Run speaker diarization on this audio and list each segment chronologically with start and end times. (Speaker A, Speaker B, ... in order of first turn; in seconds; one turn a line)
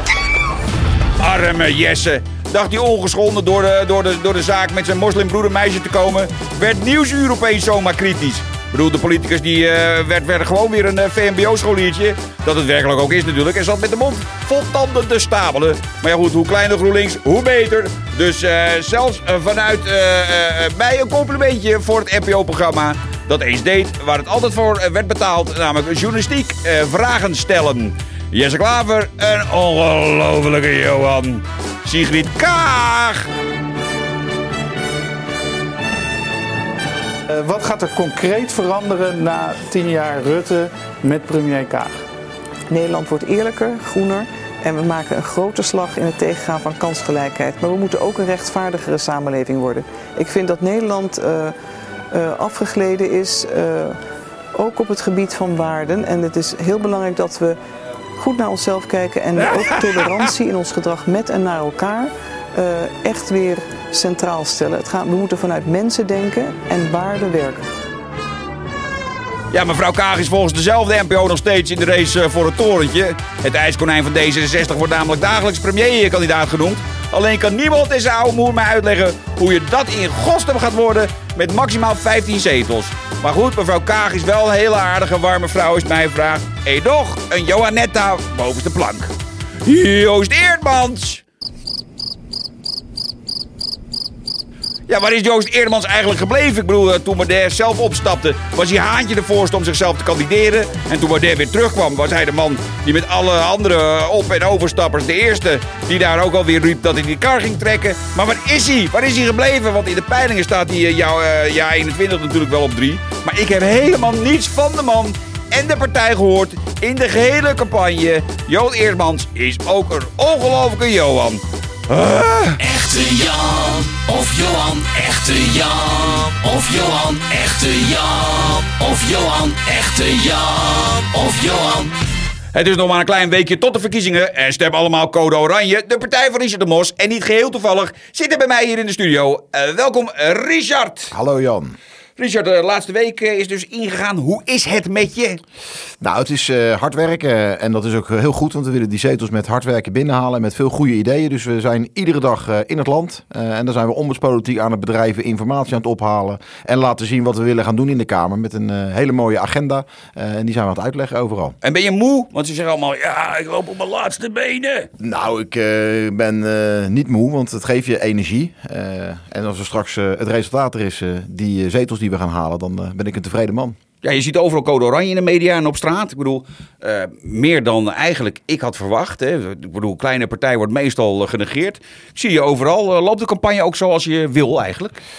Speaker A: 1.2-33.3
Speaker B: 37.3-42.1
Speaker C: 42.7-51.5
Speaker C: 52.1-54.0
Speaker C: 54.5-57.6
Speaker C: 58.2-67.7
Speaker A: 59.5-60.2
Speaker A: 69.5-89.1
Speaker A: 89.7-91.2
Speaker A: 94.9-122.6
Speaker D: 122.6-131.9
Speaker A: 132.5-141.1
Speaker E: 141.1-141.8
Speaker A: 142.2-145.4
Speaker E: 146.0-161.6
Speaker A: 161.6-164.9
Speaker E: 165.0-173.8
Speaker A: 174.0-185.0